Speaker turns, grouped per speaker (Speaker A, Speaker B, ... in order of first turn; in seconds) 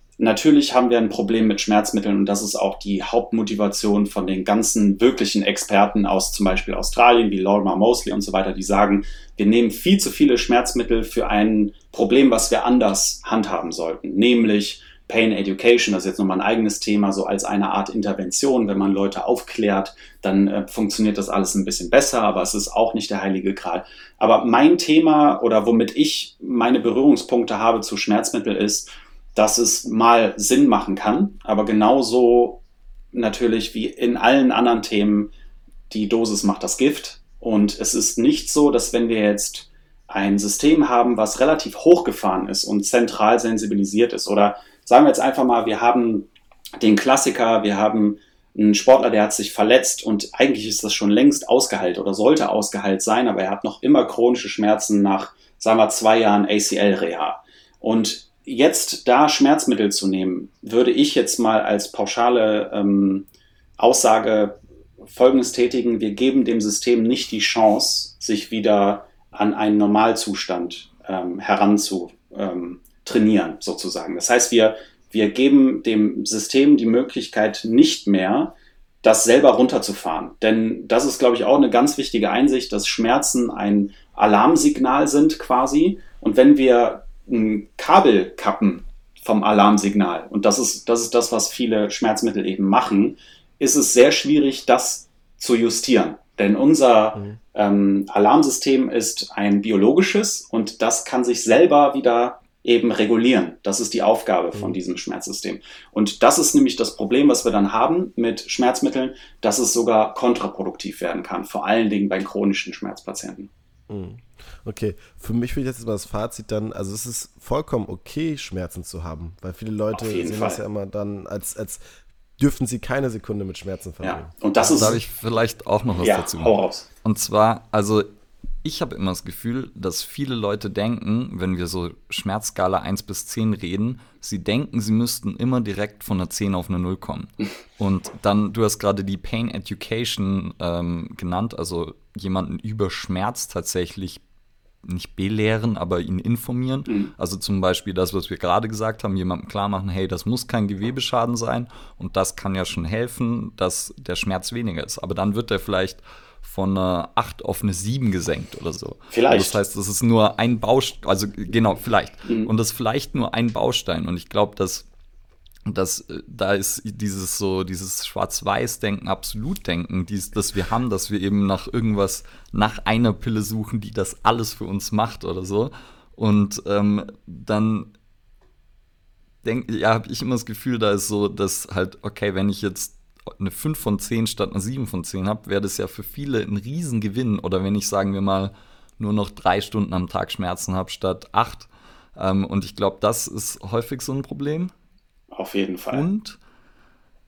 Speaker A: 0.2-32.6, 33.1-35.3, 35.9-46.3, 46.8-63.2, 63.8-113.5, 119.9-120.6, 124.0-125.0, 126.0-126.9, 159.1-159.6, 195.3-196.1
Speaker B: 113.9-121.8, 122.4-124.8
Speaker C: 124.7-128.1, 128.6-144.2, 144.8-164.8, 165.7-177.9, 179.4-194.7, 195.9-196.4